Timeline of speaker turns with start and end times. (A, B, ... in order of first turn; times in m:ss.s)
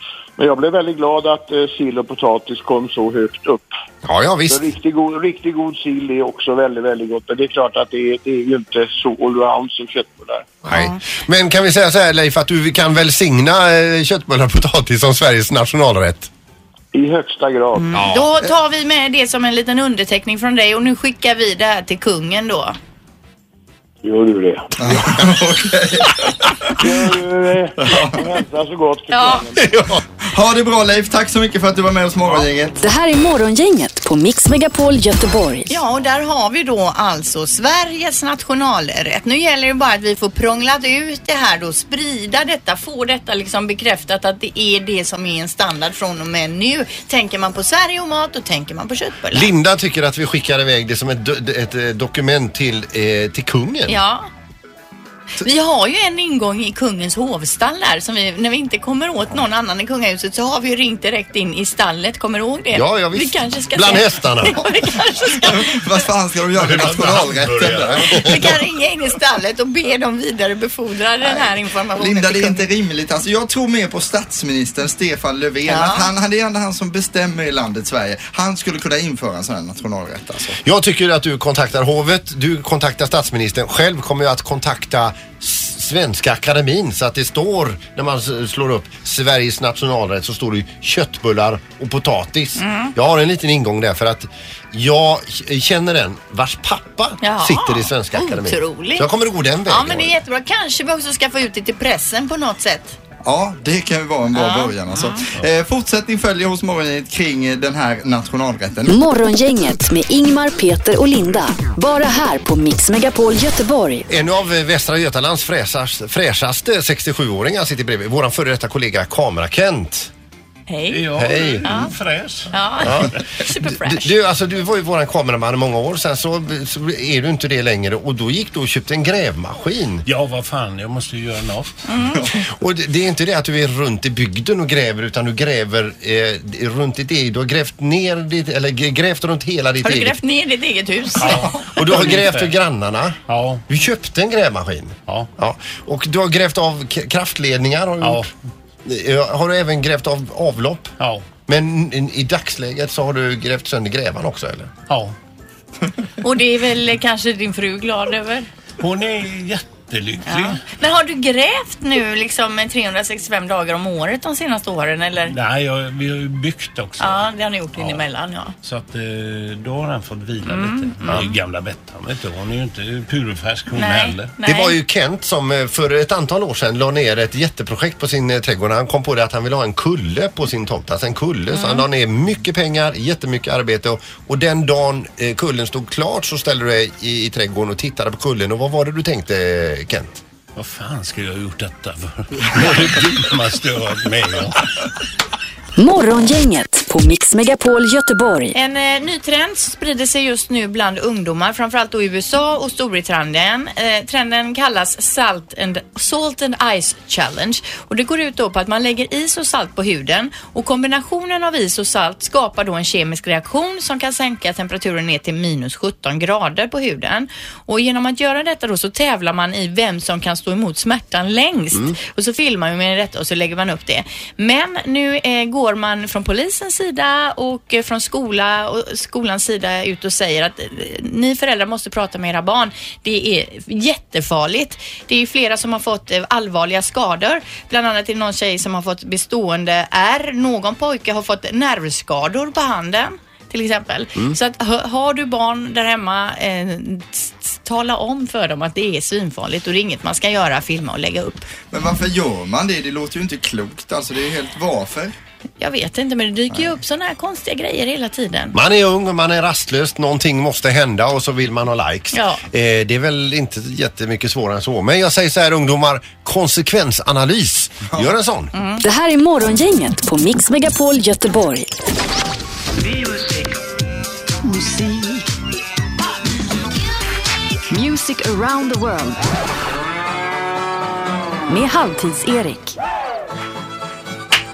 0:00.4-0:03.7 A
0:04.0-0:04.6 B
0:04.5-0:10.6 A
0:10.6-0:16.3 B
0:10.7-0:11.0 C
0:16.9-0:18.0 A
0:17.8-0:22.8 C
0:17.9-0:18.3 B
0:24.0-0:24.7 A
0:24.8-0:26.8 D
0:26.8-0:29.8 A
0:27.8-0:28.2 D
0:29.1-0:29.5 C
0:29.6-0:30.0 B
0:30.2-0:32.8 D
0:32.8-0:35.8 E
0:35.7-0:49.5 C
0:49.3-0:54.0 B
0:53.8-0:54.3 C
0:55.4-1:05.8 C
1:02.7-1:04.7 B
1:05.4-1:08.5 D
1:06.6-1:08.2 F
1:06.8-1:08.4 B
1:08.2-1:12.6 C
1:11.2-1:20.6 D
1:15.7-1:16.1 C
1:20.6-1:40.2 B
1:32.6-1:32.9 C
1:37.2-1:39.1 C
1:39.6-1:43.0 C
1:43.2-1:49.0 D
1:44.3-1:45.2 C
1:48.9-1:54.1 E
1:54.1-2:00.1 B
2:00.7-2:01.9 C
2:00.9-2:02.6 F
2:01.2-2:01.7 B
2:02.5-2:04.1 C
2:02.8-2:10.0 B
2:10.0-2:11.9 F
2:11.9-2:12.2 C
2:12.3-2:20.2 B
2:19.8-2:22.1 C
2:21.2-2:22.5 F
2:21.3-2:28.3 B
2:23.3-2:23.6 F
2:28.0-2:28.3 F
2:28.8-2:30.9 B
2:31.0-2:31.3 F
2:31.5-2:34.7 B
2:34.9-2:35.1 F
2:36.2-2:38.5 C
2:38.8-2:40.6 F
2:40.2-2:45.3 C
2:45.3-2:48.0 F
2:47.0-2:48.5 C
2:48.6-2:54.3 F
2:50.4-2:51.3 C
2:53.7-2:54.8 C
2:54.4-3:10.2 B
3:01.5-3:01.8 C
3:10.5-3:14.7 F
3:15.8-3:18.5 E
3:18.5-4:11.5 C
4:11.7-4:15.1 D
4:15.6-4:18.6 C
4:18.5-4:28.5 B
4:22.1-4:22.4 C
4:28.5-4:28.8 C
4:28.8-4:31.7 E
4:34.4-4:35.2 E
4:37.7-4:39.2 E
4:41.5-4:42.8 E